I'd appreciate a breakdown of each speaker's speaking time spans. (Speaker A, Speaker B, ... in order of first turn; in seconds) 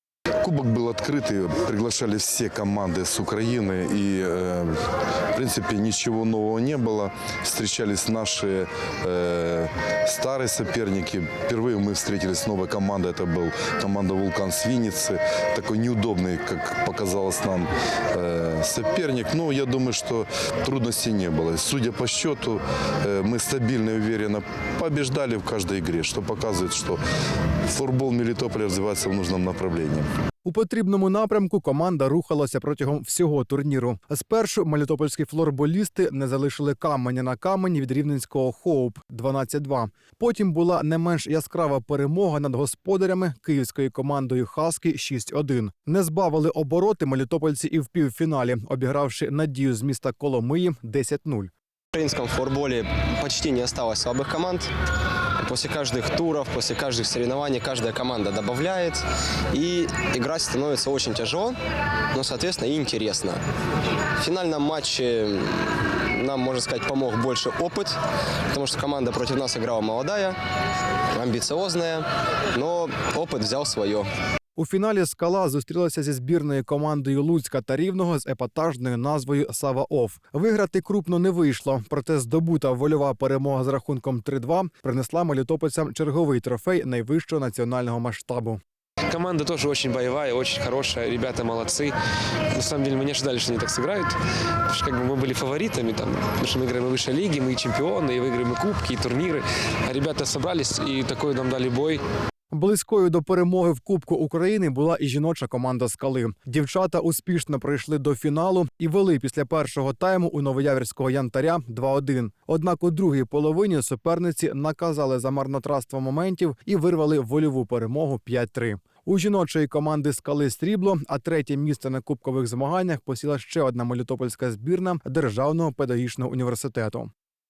Speaker A: 0.4-27.0, 27.7-30.1
Speaker B: 30.4-51.5, 74.6-88.6, 102.5-127.1
Speaker C: 51.9-54.7, 55.4-61.6, 62.1-63.4, 64.2-68.0, 68.5-70.4, 71.1-74.1
Speaker D: 89.1-92.0, 92.5-102.0